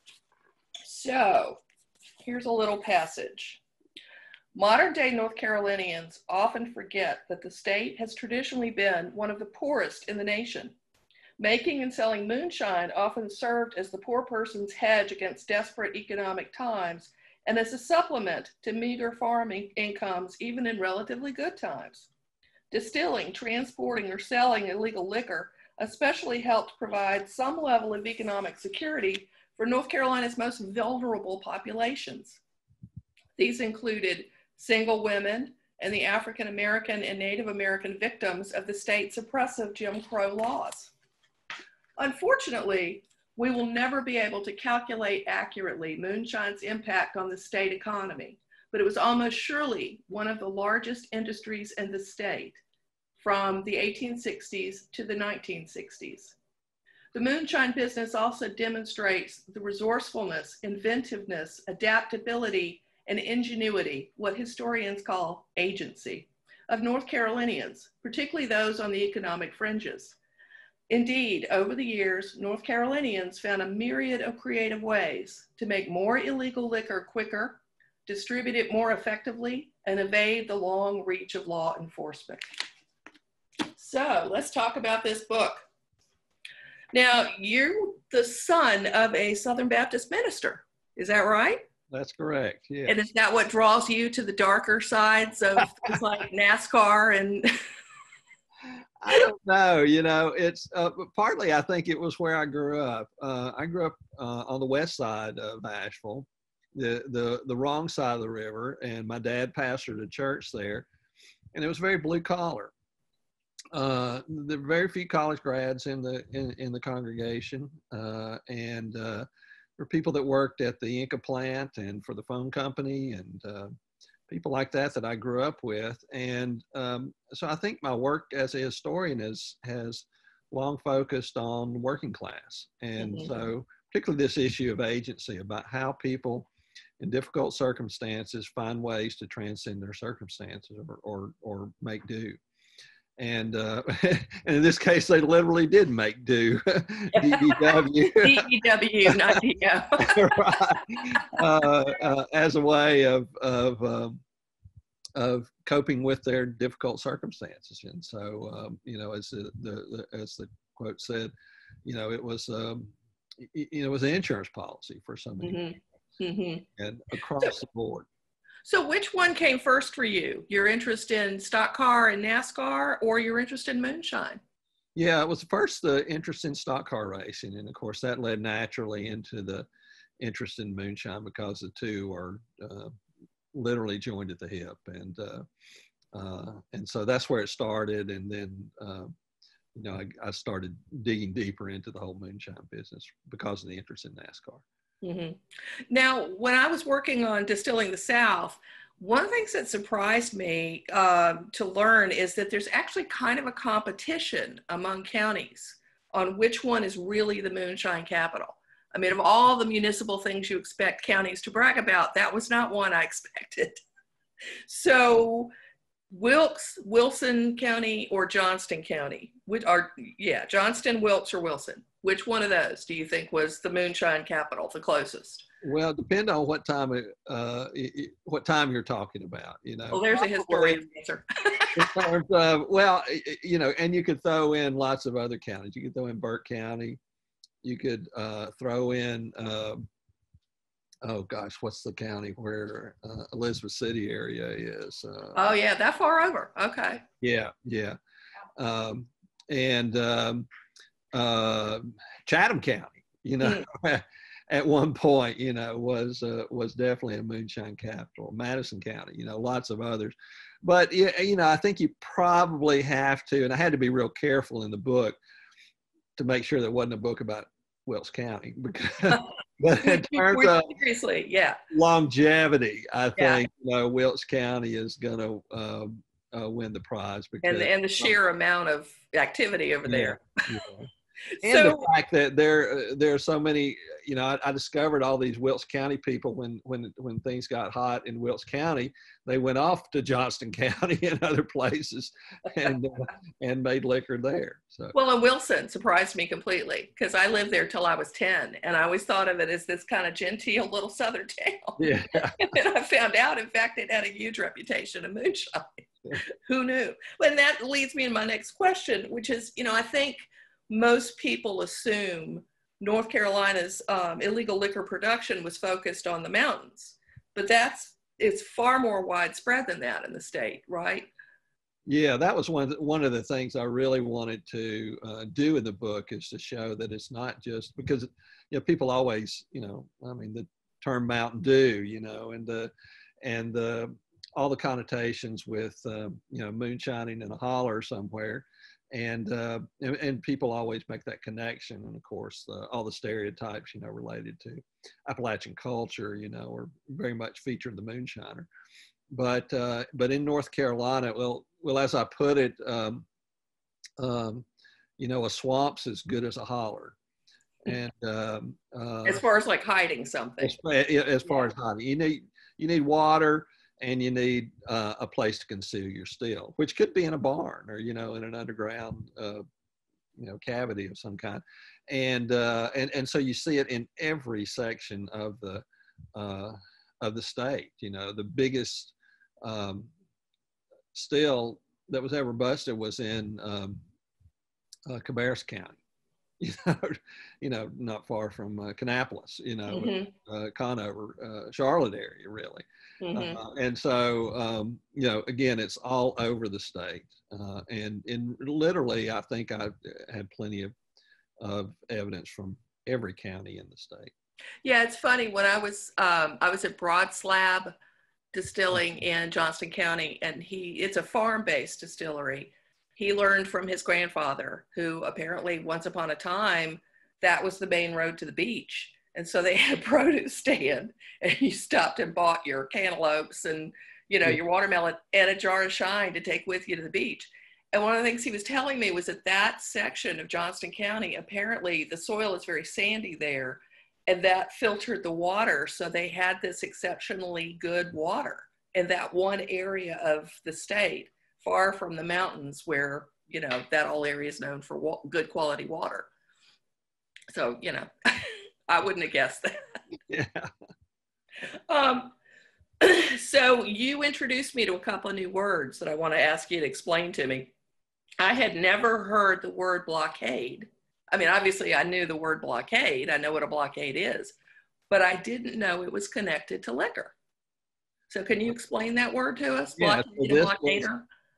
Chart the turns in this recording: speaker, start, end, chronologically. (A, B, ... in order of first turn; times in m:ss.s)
0:00.8-0:01.6 A
0:02.2-0:03.6 A
0:04.5-0:10.7 A
0:11.4-0:22.1 A
0:22.7-0:32.4 A
0:33.4-0:40.9 A
0:42.0-0:52.6 A
0:53.2-0:56.3 A
0:57.1-1:10.2 A
1:10.9-1:22.4 A
1:23.8-1:25.6 A
1:26.9-1:31.7 A
1:31.9-1:33.0 B
1:32.8-1:37.5 A
1:39.0-1:50.9 B
1:51.5-1:52.7 B
1:53.7-2:03.7 B
2:04.3-2:16.5 B
2:13.0-2:13.4 A
2:17.0-2:22.4 B
2:23.2-2:28.5 B
2:27.2-2:30.4 A
2:29.1-2:29.4 B
2:30.0-2:34.2 B
2:35.2-2:41.3 B
2:41.8-2:45.6 B
2:45.4-2:46.6 A
2:46.8-2:48.1 B
2:48.6-2:54.4 A
2:55.0-2:59.7 B
3:00.2-3:02.9 B
3:03.5-3:05.5 B
3:06.1-3:09.1 B
3:09.7-3:14.6 B
3:15.0-3:33.8 A
3:34.7-3:35.5 A
3:36.1-3:45.4 A
3:45.6-3:50.8 B
3:49.9-3:52.1 A
3:51.7-3:57.0 B
3:57.6-3:59.8 B
4:01.0-4:05.5 B
4:05.4-4:07.0 A
4:07.2-4:08.0 B
4:08.6-4:10.5 B
4:11.1-4:25.2 B
4:13.4-4:13.7 A
4:26.2-4:30.7 B
4:29.8-4:31.6 A
4:31.7-4:38.1 B
4:33.2-4:33.4 A
4:37.4-4:40.6 A
4:39.8-4:40.9 B
4:41.4-4:41.9 A
4:41.4-4:54.9 B
4:54.9-5:21.1 A
5:01.8-5:02.5 B
5:21.9-5:32.7 B
5:33.2-5:48.5 B
5:49.1-5:53.0 B
5:54.0-5:54.4 B
5:55.0-5:57.0 B
5:57.6-5:59.2 B
5:59.0-6:00.6 A
6:00.4-6:09.4 B
6:10.2-6:19.9 B
6:20.9-6:23.8 B
6:24.9-6:25.8 B
6:26.4-6:40.7 B
6:29.7-6:30.1 A
6:33.0-6:33.4 A
6:41.4-6:44.1 B
6:44.6-6:47.7 A
6:48.3-7:26.1 A
7:27.3-7:29.6 A
7:30.1-7:30.5 B
7:31.7-7:32.1 A
7:32.8-7:37.5 A
7:38.2-7:44.4 A
7:44.9-7:47.1 A
7:48.1-7:51.0 A
7:49.8-7:50.9 B